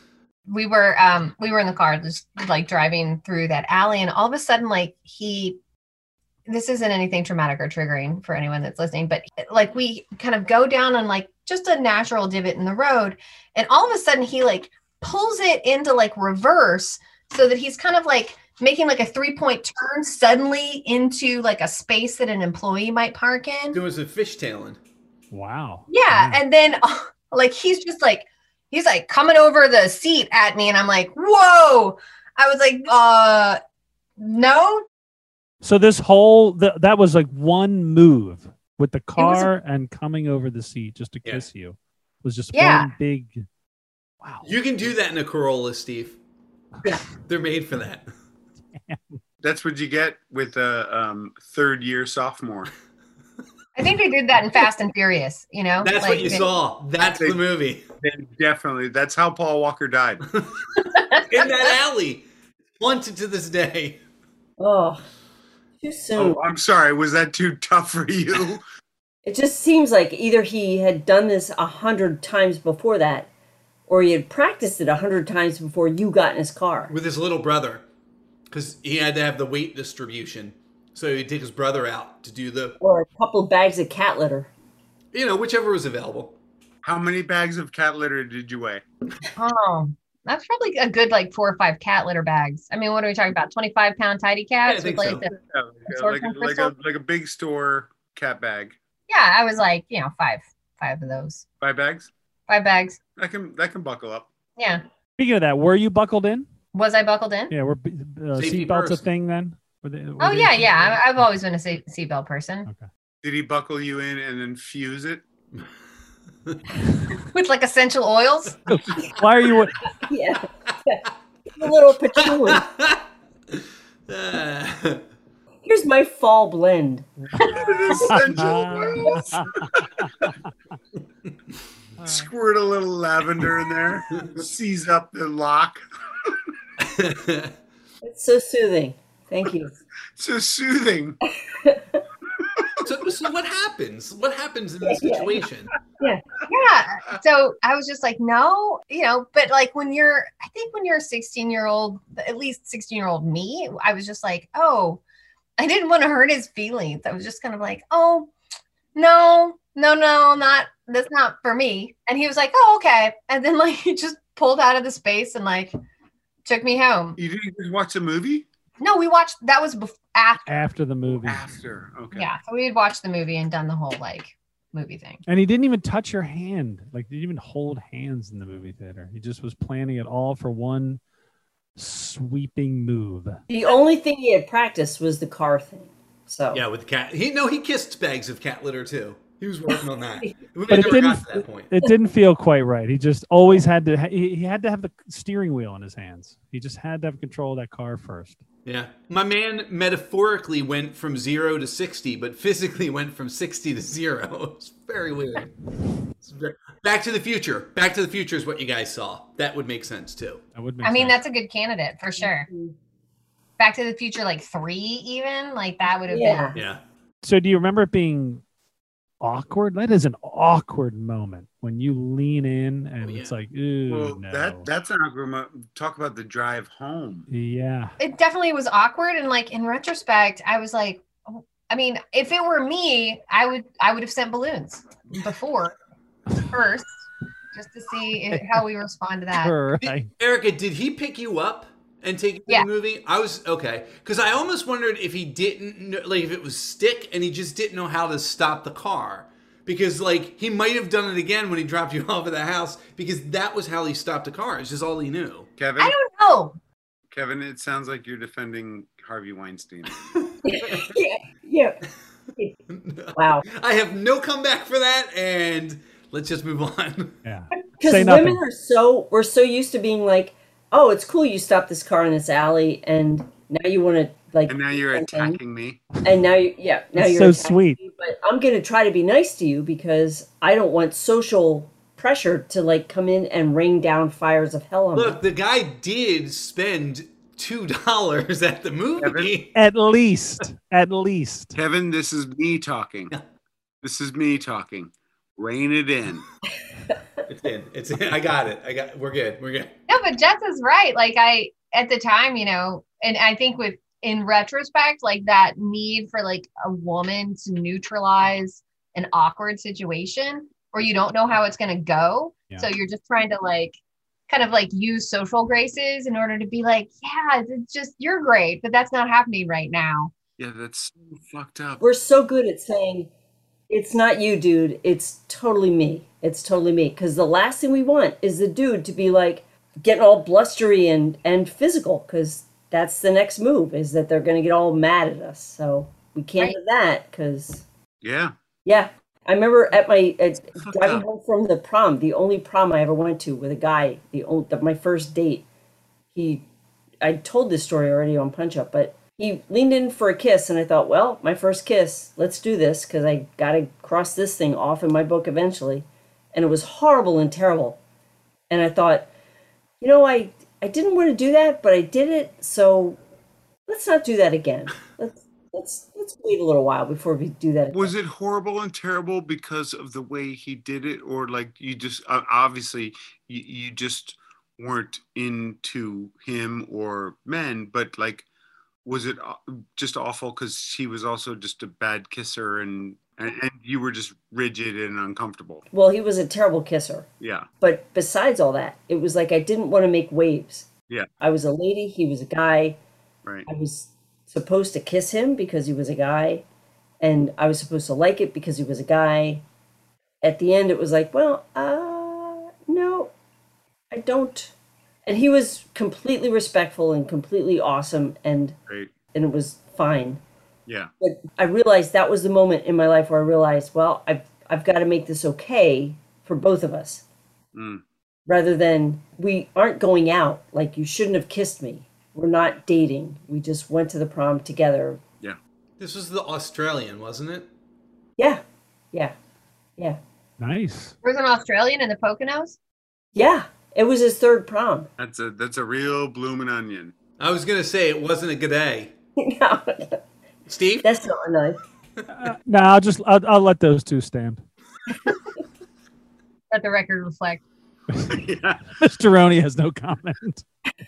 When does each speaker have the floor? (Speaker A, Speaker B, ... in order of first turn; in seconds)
Speaker A: 0.5-5.6, 6.5-23.8, 25.9-33.6, 34.2-34.9, 39.2-39.5, 42.5-42.9, 53.8-56.5, 61.0-61.2, 89.4-95.3, 95.9-96.7, 99.1-101.5, 102.5-103.0, 104.6-104.8, 106.7-107.5, 110.2-112.7, 117.3-118.6, 146.5-155.0, 155.6-158.3, 158.9-165.8, 166.4-167.2, 168.8-170.7, 172.1-175.2, 210.8-212.5, 213.6-216.5, 228.0-235.8, 236.4-239.6, 255.8-256.6, 299.9-313.8, 314.3-320.1, 431.0-432.6, 446.5-447.4
Speaker B: 23.7-24.8, 44.4-46.2, 47.0-48.1, 55.8-57.8, 61.1-62.2, 62.8-64.0, 76.9-77.8, 78.5-82.8, 85.1-86.4, 94.7-95.3, 108.4-109.0, 122.2-125.0, 136.8-137.5, 142.8-145.7, 186.5-191.7, 198.7-205.6, 206.2-210.4, 216.5-216.8, 223.0-223.3, 239.8-255.5, 262.7-267.2, 284.9-289.6, 297.3-299.7, 425.8-427.5, 437.2-438.9, 440.5-440.9
Speaker C: 25.3-26.4, 35.6-43.4, 44.2-44.5, 48.8-49.2, 105.2-106.5, 107.5-111.1, 118.7-119.8, 127.4-130.3, 132.0-132.3, 170.5-171.5, 175.3-181.0, 181.8-183.4, 190.7-198.4, 210.6-211.2, 217.2-218.4, 219.2-224.7, 227.3-228.0, 239.4-240.1, 267.2-268.4, 276.9-277.8, 289.6-291.6, 430.4-430.9, 442.1-444.4, 447.9-448.2, 448.8-450.4
Speaker D: 49.4-52.7, 57.0-57.4, 58.0-60.3, 66.2-68.6, 86.8-88.8, 95.4-98.8, 101.6-102.1, 103.2-104.3, 113.2-115.2, 127.4-129.8, 132.0-136.4, 140.2-141.2, 142.4-142.9, 167.2-168.5, 171.1-172.3, 223.9-227.3, 255.6-256.0, 257.1-260.0, 274.5-275.9, 289.0-289.3, 291.6-293.1, 293.8-296.2, 320.4-321.8, 338.0-338.3, 340.6-341.1, 367.7-378.3, 378.9-385.6, 387.2-387.5, 408.7-408.9, 417.5-417.8, 435.0-436.9, 448.1-448.6
Speaker E: 64.6-65.0, 65.8-66.4, 69.2-73.3, 73.9-76.9, 82.8-84.5, 120.0-122.6, 125.7-128.2, 138.0-139.8, 141.3-142.0, 144.8-145.5, 146.0-146.4, 183.5-186.6, 190.2-190.9, 212.2-212.8, 216.1-216.6, 260.4-261.8, 263.1-263.4, 267.8-275.4, 276.0-285.2, 321.8-323.1, 323.7-337.6, 338.6-345.4, 346.1-346.4, 347.0-357.8, 358.5-359.1, 359.8-363.0, 363.7-367.9, 385.7-387.1, 387.6-390.7, 391.2-392.8, 393.5-396.4, 397.0-399.4, 400.2-403.1, 403.9-404.5, 405.1-408.6, 409.1-410.2, 411.0-417.0, 418.3-425.0, 428.2-429.1, 433.1-434.9, 439.2-440.0, 440.8-441.6